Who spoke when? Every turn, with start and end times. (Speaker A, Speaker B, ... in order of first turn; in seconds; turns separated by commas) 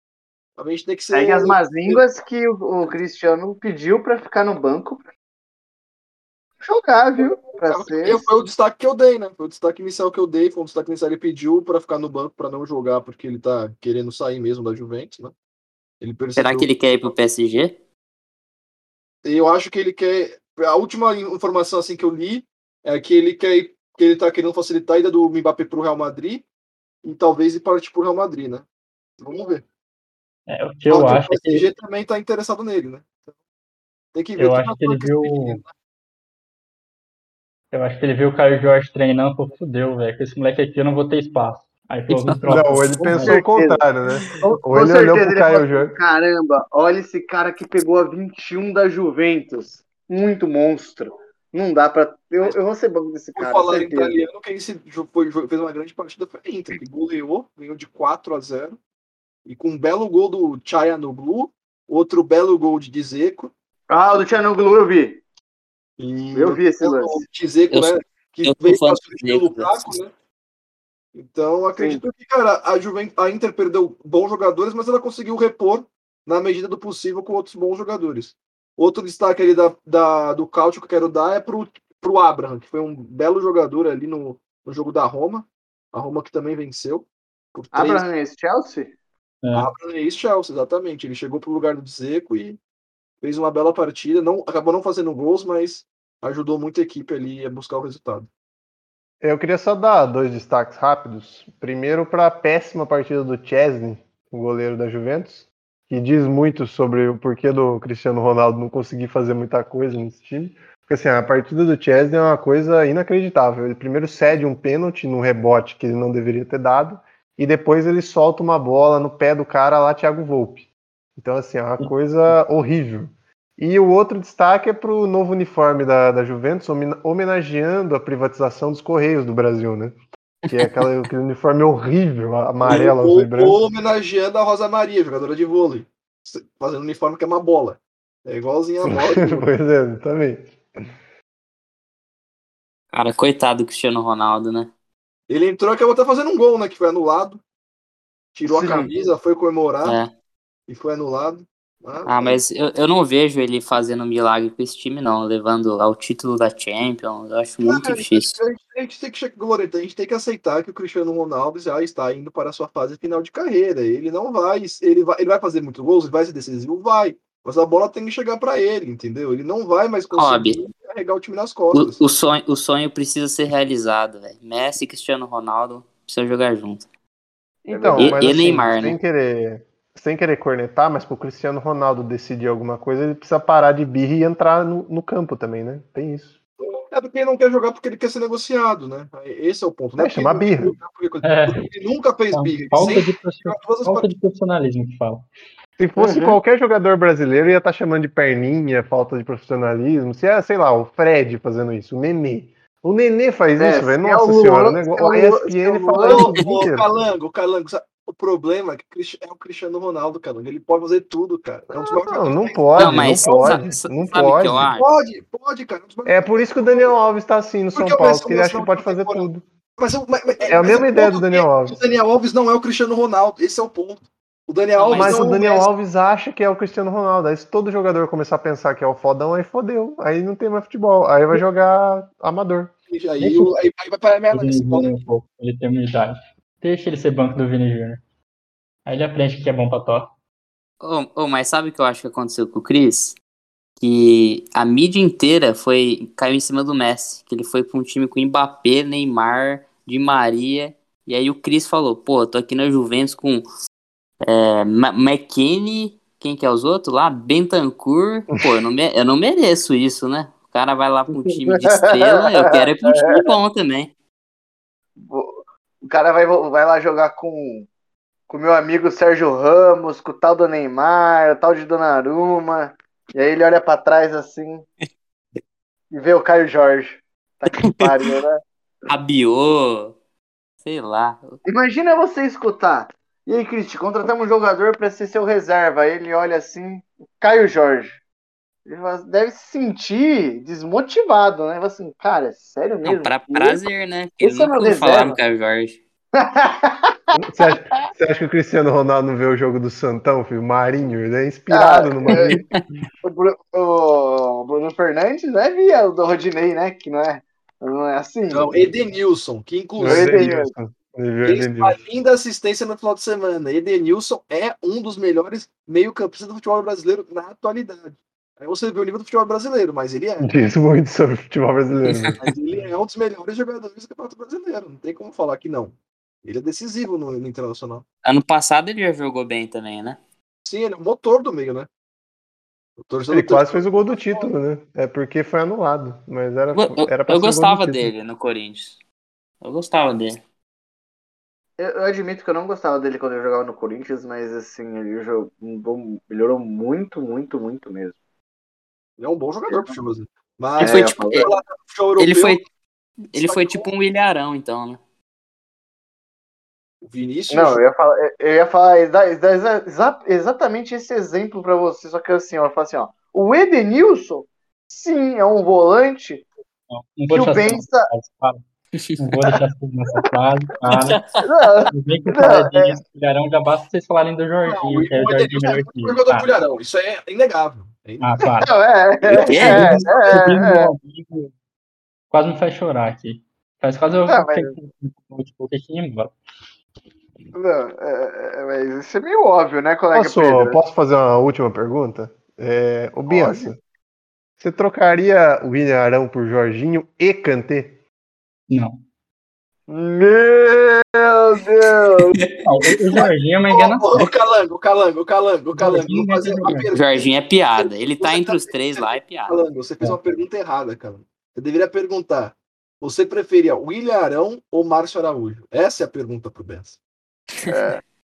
Speaker A: 0.6-2.0, Speaker B: 1.1-5.0, Speaker B: 6.6-8.3, Speaker A: 7.4-15.3, Speaker A: 16.0-16.7, Speaker C: 16.4-17.7, Speaker A: 19.2-26.4, Speaker A: 27.0-28.6, Speaker A: 29.2-29.6, Speaker D: 30.5-31.7, Speaker A: 30.9-33.2, Speaker A: 34.1-35.7, Speaker D: 34.4-35.6, Speaker D: 37.7-43.4, Speaker E: 42.5-46.0, Speaker B: 43.1-43.8, Speaker B: 44.4-54.1, Speaker A: 53.4-58.8, Speaker A: 59.4-63.5, Speaker B: 63.9-65.2, Speaker A: 66.0-70.1, Speaker B: 66.3-67.2, Speaker C: 67.7-70.0, Speaker A: 71.1-88.0, Speaker B: 71.8-72.0, Speaker B: 87.7-88.9, Speaker D: 89.4-89.7, Speaker A: 89.5-92.6, Speaker A: 93.2-98.3, Speaker E: 99.2-129.9, Speaker E: 130.5-133.6, Speaker A: 132.6-139.4, Speaker E: 138.9-140.5, Speaker C: 142.9-144.7, Speaker A: 145.3-147.4, Speaker A: 148.3-150.0, Speaker B: 148.5-148.9, Speaker C: 149.8-150.1, Speaker A: 150.7-152.4, Speaker C: 152.1-158.4, Speaker A: 157.6-172.0, Speaker C: 170.1-170.6, Speaker C: 171.7-176.9, Speaker B: 177.7-178.2, Speaker E: 177.7-186.3, Speaker C: 177.9-179.0, Speaker A: 186.6-194.1, Speaker E: 190.0-190.8, Speaker D: 191.2-191.7, Speaker D: 192.3-195.3, Speaker E: 195.8-206.8, Speaker B: 196.0-196.4, Speaker B: 203.6-206.3, Speaker A: 206.0-213.7, Speaker E: 211.7-214.7, Speaker C: 212.8-215.0, Speaker A: 214.7-216.9, Speaker E: 216.1-219.4, Speaker A: 217.7-219.2, Speaker A: 219.8-225.7, Speaker E: 220.5-221.8, Speaker C: 224.8-225.3, Speaker E: 224.9-232.7, Speaker A: 232.9-235.0, Speaker D: 233.2-233.6, Speaker D: 234.3-238.0, Speaker D: 238.8-240.1, Speaker C: 240.8-243.2, Speaker C: 243.8-253.4, Speaker C: 254.2-263.9, Speaker B: 261.1-263.2, Speaker B: 265.0-267.7, Speaker B: 268.3-274.6, Speaker B: 275.9-278.4, Speaker C: 277.6-277.9, Speaker C: 278.9-279.9, Speaker C: 280.6-281.4, Speaker B: 281.4-288.0, Speaker B: 288.6-293.6, Speaker C: 292.8-295.8, Speaker B: 294.2-295.2, Speaker B: 296.1-297.9, Speaker E: 297.1-302.4, Speaker B: 301.5-302.4, Speaker C: 302.1-302.5, Speaker B: 303.0-308.6, Speaker A: 308.3-310.3, Speaker E: 309.8-311.8, Speaker B: 309.8-310.5, Speaker A: 311.2-320.3, Speaker E: 320.2-322.2, Speaker A: 322.2-327.8, Speaker C: 328.0-330.0, Speaker A: 330.4-331.7, Speaker A: 332.8-334.3, Speaker E: 333.1-337.9, Speaker C: 336.5-338.8, Speaker C: 339.4-340.2, Speaker B: 341.6-347.9, Speaker A: 349.0-352.4, Speaker B: 350.6-351.3, Speaker C: 350.6-351.3, Speaker C: 352.0-352.4, Speaker C: 353.1-354.8, Speaker A: 353.1-353.6, Speaker A: 356.8-357.6, Speaker B: 357.3-366.2, Speaker D: 366.7-368.4, Speaker B: 367.1-367.9, Speaker D: 369.0-371.0, Speaker C: 370.7-371.2, Speaker B: 371.2-372.8, Speaker D: 371.7-376.3, Speaker A: 374.4-378.2, Speaker D: 378.0-378.5, Speaker B: 378.4-380.7, Speaker D: 379.2-381.3, Speaker C: 379.2-379.8, Speaker D: 382.1-386.1, Speaker B: 384.1-384.5, Speaker B: 387.3-390.6, Speaker E: 389.9-393.6, Speaker B: 393.1-393.5, Speaker E: 394.4-397.7, Speaker D: 398.5-398.8, Speaker B: 399.7-402.2, Speaker D: 402.4-404.0, Speaker A: 403.5-416.8, Speaker D: 405.6-406.7, Speaker C: 406.7-409.4, Speaker B: 417.5-417.8